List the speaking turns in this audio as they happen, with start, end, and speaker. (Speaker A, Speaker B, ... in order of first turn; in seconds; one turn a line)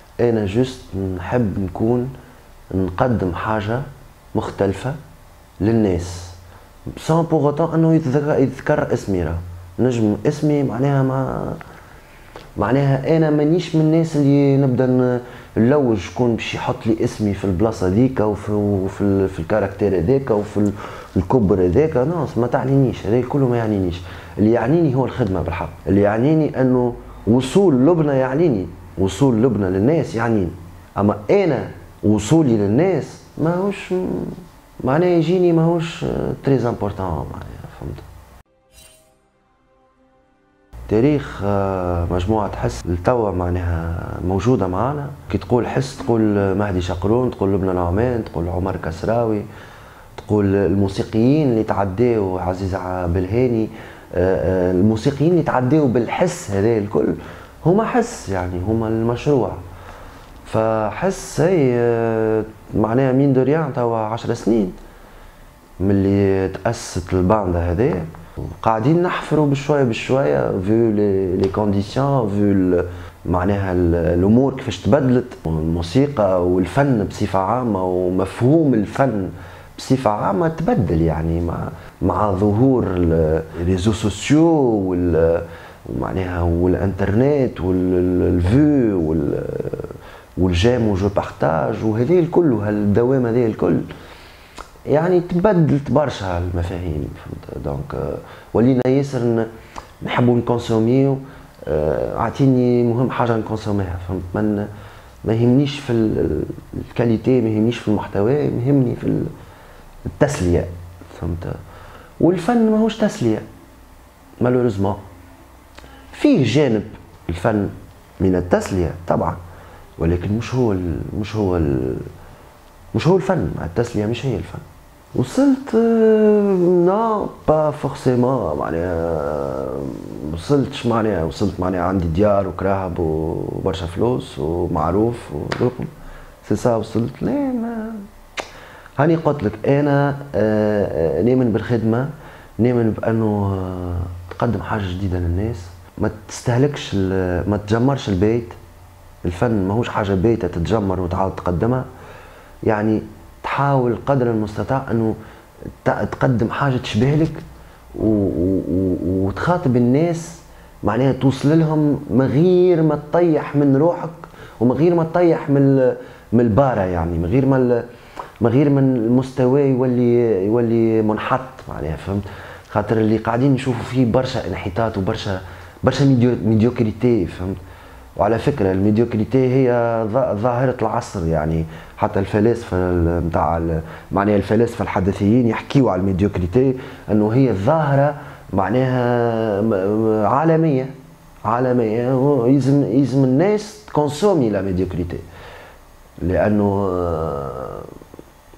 Speaker A: 0.2-2.1
Speaker A: 2.7-5.0
Speaker A: 5.6-6.4
Speaker A: 6.9-11.6
Speaker A: 12.6-38.1
Speaker A: 40.9-49.5
Speaker A: 50.1-59.6
Speaker A: 60.5-64.8
Speaker A: 65.8-93.9
Speaker A: 94.9-99.5
Speaker A: 100.0-104.7
Speaker A: 105.2-109.3
Speaker A: 110.0-111.6
Speaker A: 112.2-113.5
Speaker A: 114.4-115.0
Speaker A: 116.1-119.4
Speaker A: 120.0-122.1
Speaker A: 122.9-135.9
Speaker A: 136.4-138.1
Speaker A: 139.0-148.6
Speaker A: 149.2-151.9
Speaker A: 152.7-155.2
Speaker A: 155.8-157.4
Speaker A: 158.0-167.9
Speaker A: 168.4-177.6
Speaker A: 178.2-190.9
Speaker A: 191.4-195.2
Speaker A: 196.2-197.9